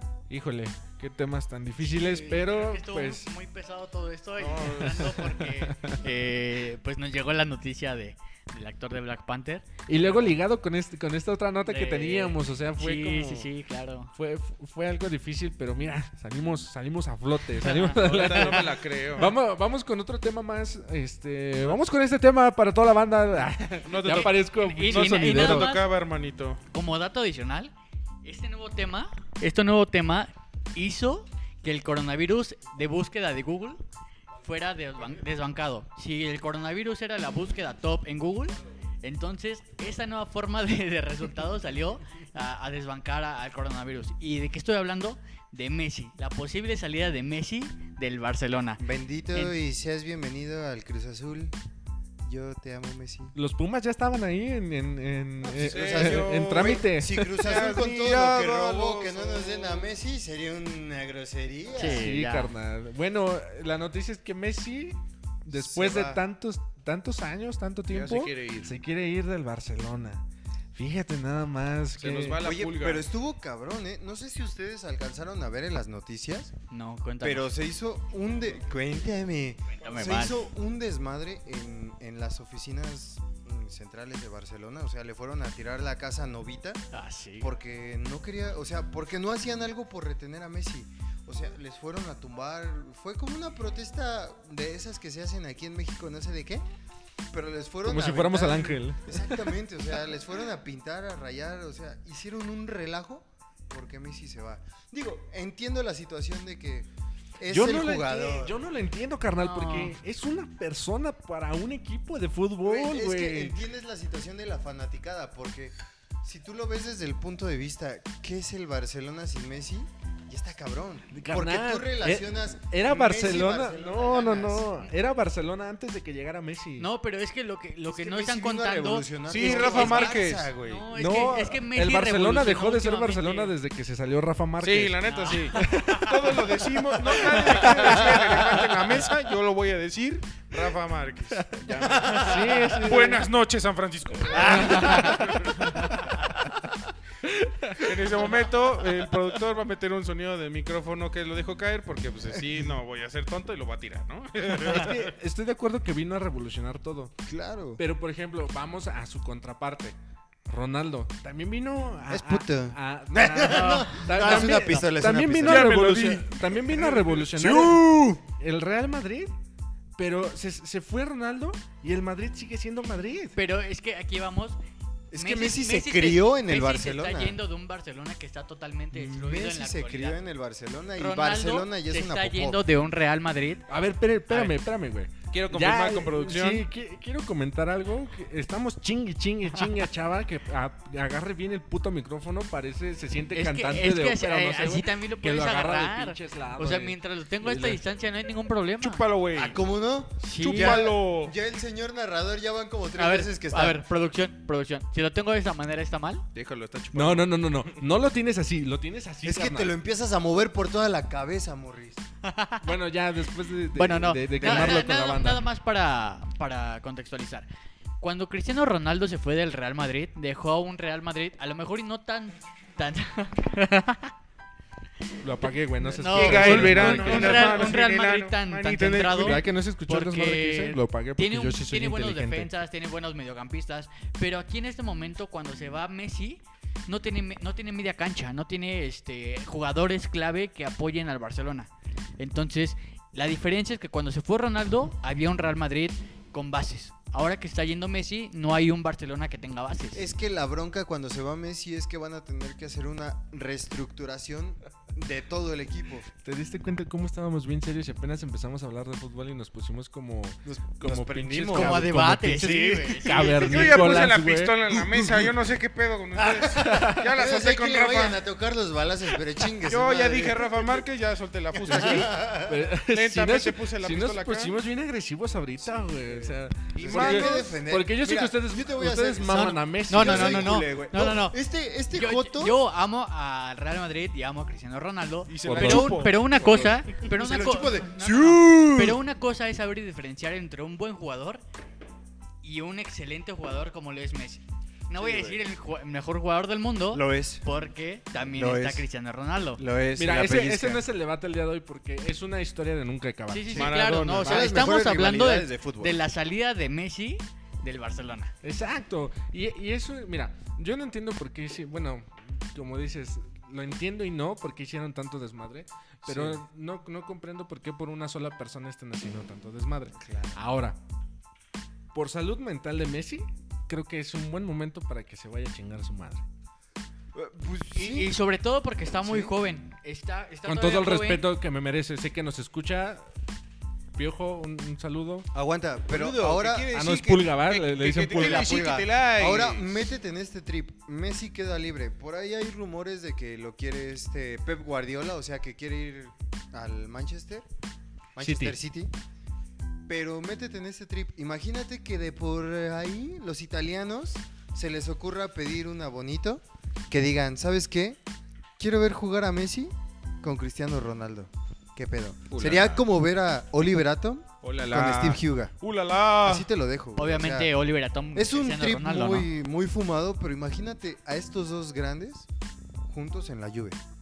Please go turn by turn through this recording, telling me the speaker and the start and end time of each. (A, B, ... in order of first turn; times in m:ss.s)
0:00.3-0:03.3 A
0:01.8-0:10.4 B
0:04.4-0:05.2 C
0:04.8-0:06.0 A
0:09.9-0:13.5 A
0:11.6-0:14.1 B
0:14.1-0:25.8 A
0:17.6-0:19.3 B
0:17.7-0:19.4 C
0:23.9-0:26.6 C
0:24.0-0:25.9 B
0:26.7-0:27.7 B
0:28.2-0:33.8 B
0:34.4-0:49.5 B
0:48.8-0:51.6 D
0:52.3-0:53.4 D
0:53.4-0:57.4 A
0:55.4-0:59.9 C
0:55.5-1:02.1 D
1:01.8-1:02.5 B
1:01.8-1:12.4 A
1:05.5-1:06.2 D
1:07.9-1:08.8 C
1:12.0-1:13.1 C
1:12.4-1:16.5 D
1:16.7-1:17.6 B
1:17.2-1:26.8 D
1:19.8-1:20.4 B
1:26.9-1:27.5 B
1:27.4-1:36.6 D
1:37.3-1:48.6 D
1:37.8-1:39.5 A
1:47.5-1:53.6 A
1:49.4-1:50.0 B
1:52.6-2:04.7 D
2:01.1-2:06.9 A
2:06.8-2:13.5 B
2:07.9-2:10.9 D
2:09.3-2:10.5 C
2:10.9-2:16.3 A
2:14.6-2:25.8 C
2:15.0-2:16.4 B
2:17.1-2:17.8 B
2:17.3-2:18.9 A
2:21.8-2:22.4 D
2:21.8-2:23.3 A
2:24.3-2:26.2 A
2:24.8-2:25.2 B
2:27.2-2:28.2 A
2:27.8-2:35.1 C
2:34.5-2:37.2 A
2:37.3-2:37.8 D
2:37.8-2:40.0 A
2:40.5-2:49.3 A
2:42.1-2:46.1 D
2:43.4-2:44.8 B
2:45.4-2:47.3 C
2:46.7-2:48.2 D
2:50.0-2:53.4 A
2:53.4-2:54.6 B
2:55.1-2:57.4 D
2:55.1-3:00.2 B
2:58.9-3:02.6 D
3:01.0-3:03.6 B
3:03.7-3:17.8 A
3:05.3-3:06.7 C
3:13.3-3:19.1 B
3:18.8-3:19.6 C
3:19.3-3:23.8 D
3:20.2-3:20.9 B
3:20.4-3:21.4 C
3:23.0-3:26.2 B
3:26.3-3:27.8 C
3:26.9-3:29.8 A
3:29.2-3:32.1 D
3:32.2-3:32.8 B
3:32.6-3:35.5 A
3:33.7-3:37.5 B
3:34.4-3:34.9 D
3:38.0-3:44.1 B
3:45.2-3:47.7 A
3:45.8-4:10.1 B
3:46.1-3:49.4 C
3:49.1-3:52.5 A
4:09.9-4:16.1 D
4:16.2-4:24.8 A
4:20.4-4:21.9 D
4:21.5-4:24.0 B
4:23.2-4:28.2 C
4:26.2-4:30.8 D
4:26.6-4:27.1 A
4:29.6-4:34.6 C
4:31.6-4:32.6 D
4:31.7-4:40.6 A
4:36.1-4:42.6 D
4:36.8-4:37.5 C
4:39.9-4:41.4 B
4:41.9-4:51.4 B
4:45.3-4:46.2 C
4:45.4-4:46.7 A
4:47.0-4:49.0 D
4:52.4-4:59.6 B
4:55.0-4:55.4 D
4:56.9-4:57.4 D
4:58.4-4:58.9 D
4:59.6-5:00.9 D
5:00.0-5:03.8 A
5:03.3-5:08.3 B
5:03.6-5:04.5 C
5:04.2-5:06.0 D
5:08.4-5:20.8 A
5:16.0-5:16.4 D
5:20.0-5:20.4 D
5:21.9-5:26.3 A
5:27.1-5:28.1 D
5:27.7-5:31.3 B
5:29.0-5:29.4 D
5:30.5-5:33.1 A
5:33.9-5:35.3 A
5:35.3-5:36.9 D
5:35.9-5:39.9 C
5:36.7-5:38.5 A
5:38.1-5:47.5 D
5:48.2-5:48.9 D
5:48.2-5:48.6 A
5:49.9-5:58.0 D
5:58.6-6:05.5 D
6:02.3-6:02.8 C
6:04.4-6:06.5 C
6:06.2-6:07.5 D
6:07.0-6:09.3 B
6:08.2-6:12.3 D
6:12.8-6:13.8 D